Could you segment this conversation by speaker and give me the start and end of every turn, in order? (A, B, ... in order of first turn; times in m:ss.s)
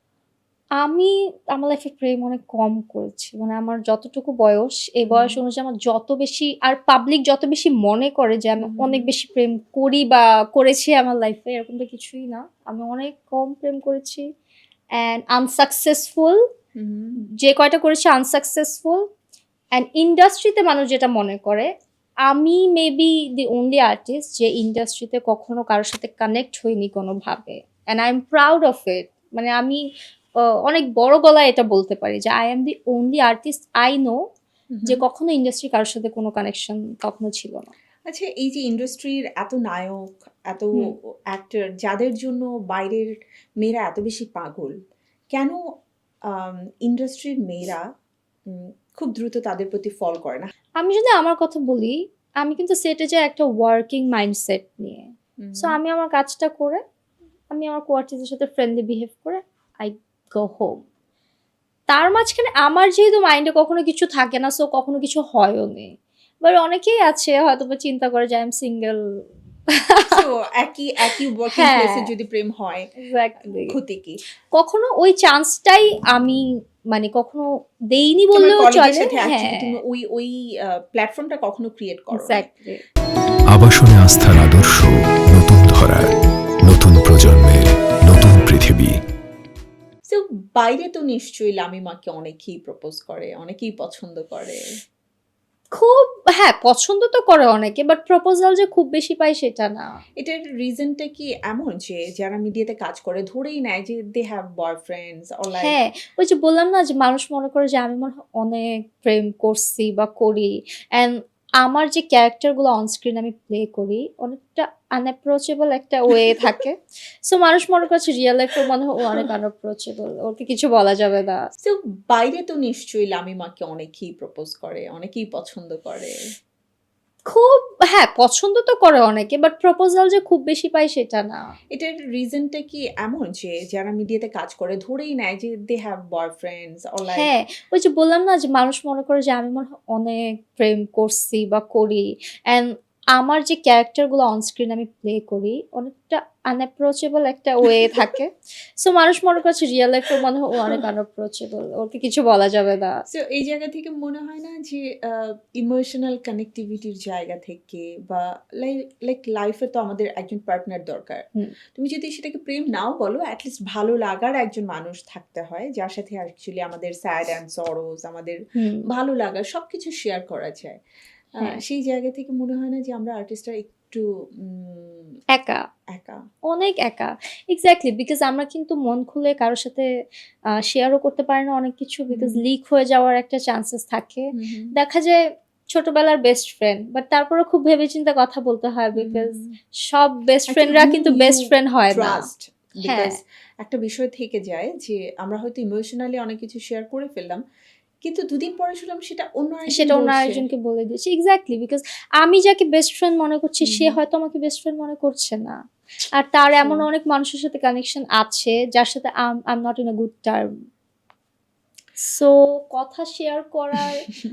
0:00.8-0:14.2 A
0:05.1-0:05.4 B
0:08.6-0:09.1 B
0:15.0-0:16.4 A
0:16.8-0:17.2 B
0:17.4-0:19.0 A
0:19.7-0:21.7 A
0:22.3-0:29.8 A
0:30.6-0:34.2 A
0:34.7-0:35.0 B
0:34.8-0:37.7 A
0:38.1-0:43.1 B
0:43.6-0:44.7 B
0:45.3-0:45.6 B
0:46.3-0:47.8 B
0:48.5-0:50.5 B
0:50.8-0:56.8 A
0:55.4-0:55.8 B
0:57.5-1:00.8 A
1:01.9-1:09.0 A
1:09.7-1:10.2 A
1:10.1-1:12.8 B
1:11.5-1:12.1 A
1:13.0-1:13.8 A
1:13.4-1:14.2 B
1:14.5-1:19.8 A
1:18.3-1:22.5 B
1:22.1-1:22.8 A
1:23.5-1:26.1 C
1:26.6-1:28.9 C
1:30.1-1:34.6 B
1:35.7-1:39.9 A
1:40.2-1:45.7 B
1:45.6-2:01.4 A
1:56.3-1:56.5 B
2:01.6-2:06.2 B
2:07.3-2:11.4 A
2:11.7-2:17.3 B
2:17.1-2:33.0 A
2:27.8-2:28.2 B
2:33.1-2:41.2 B
2:41.7-2:50.8 B
2:48.6-2:48.8 A
2:51.4-2:55.1 B
2:55.3-2:55.6 A
2:55.9-2:56.2 B
2:56.5-2:59.9 A
3:00.6-3:05.2 A
3:02.1-3:02.4 B
3:04.3-3:04.7 B
3:05.7-3:12.3 A
3:09.0-3:09.6 B
3:10.5-3:17.4 B
3:12.8-3:13.2 A
3:18.0-3:20.4 B
3:19.7-3:25.6 A
3:23.6-3:24.0 B
3:26.2-3:30.5 A
3:26.6-3:26.9 B
3:32.0-3:34.1 A